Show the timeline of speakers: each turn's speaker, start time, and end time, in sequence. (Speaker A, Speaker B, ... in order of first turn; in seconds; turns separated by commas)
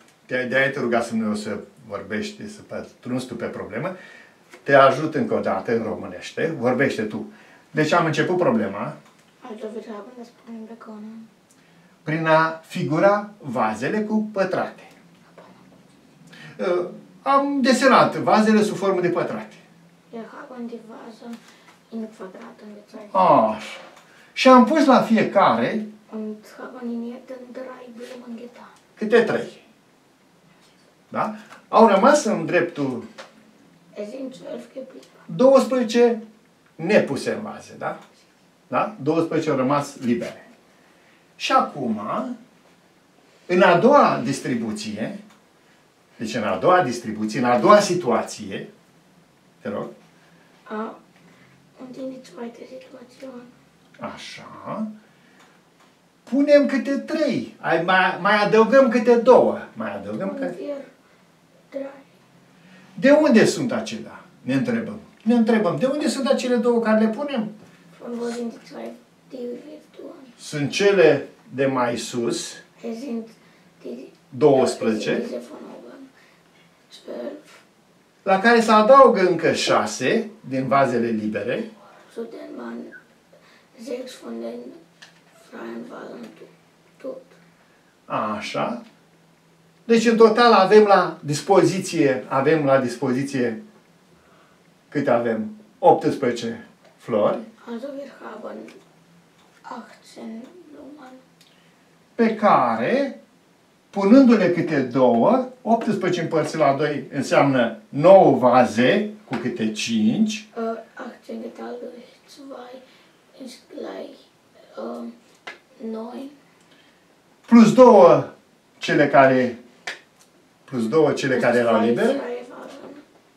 Speaker A: 0.3-4.0, Speaker A: 4.6-9.0, Speaker B: 9.4-11.3, Speaker A: 12.1-14.9, Speaker A: 16.6-19.6, Speaker B: 20.1-21.4, Speaker B: 21.9-23.4, Speaker A: 23.1-23.8, Speaker A: 24.4-25.9, Speaker B: 26.1-28.7, Speaker A: 29.0-29.6, Speaker A: 31.1-33.1, Speaker B: 33.9-35.2, Speaker A: 35.3-36.2, Speaker A: 36.8-38.0, Speaker A: 38.7-40.5, Speaker A: 41.4-42.4, Speaker A: 43.5-45.2, Speaker A: 46.2-48.7, Speaker A: 49.6-49.9, Speaker B: 50.7-51.0, Speaker B: 51.8-53.5, Speaker A: 54.0-54.9, Speaker A: 56.3-60.5, Speaker B: 60.2-60.9, Speaker B: 61.7-62.1, Speaker A: 63.0-67.5, Speaker B: 68.0-70.3, Speaker A: 70.4-72.6, Speaker B: 72.8-76.1, Speaker A: 74.3-75.3, Speaker B: 76.9-77.5, Speaker A: 78.2-81.7, Speaker B: 82.1-82.9, Speaker B: 83.7-84.8, Speaker B: 85.4-87.3, Speaker A: 88.1-88.8, Speaker A: 89.9-93.6, Speaker A: 94.9-97.5, Speaker B: 97.6-98.8, Speaker B: 99.6-101.2, Speaker A: 102.2-103.2, Speaker A: 103.9-110.5, Speaker B: 110.5-112.8, Speaker B: 113.3-114.2, Speaker B: 114.7-115.1, Speaker B: 115.8-116.3, Speaker A: 117.5-119.6, Speaker A: 120.7-122.2, Speaker B: 121.3-123.0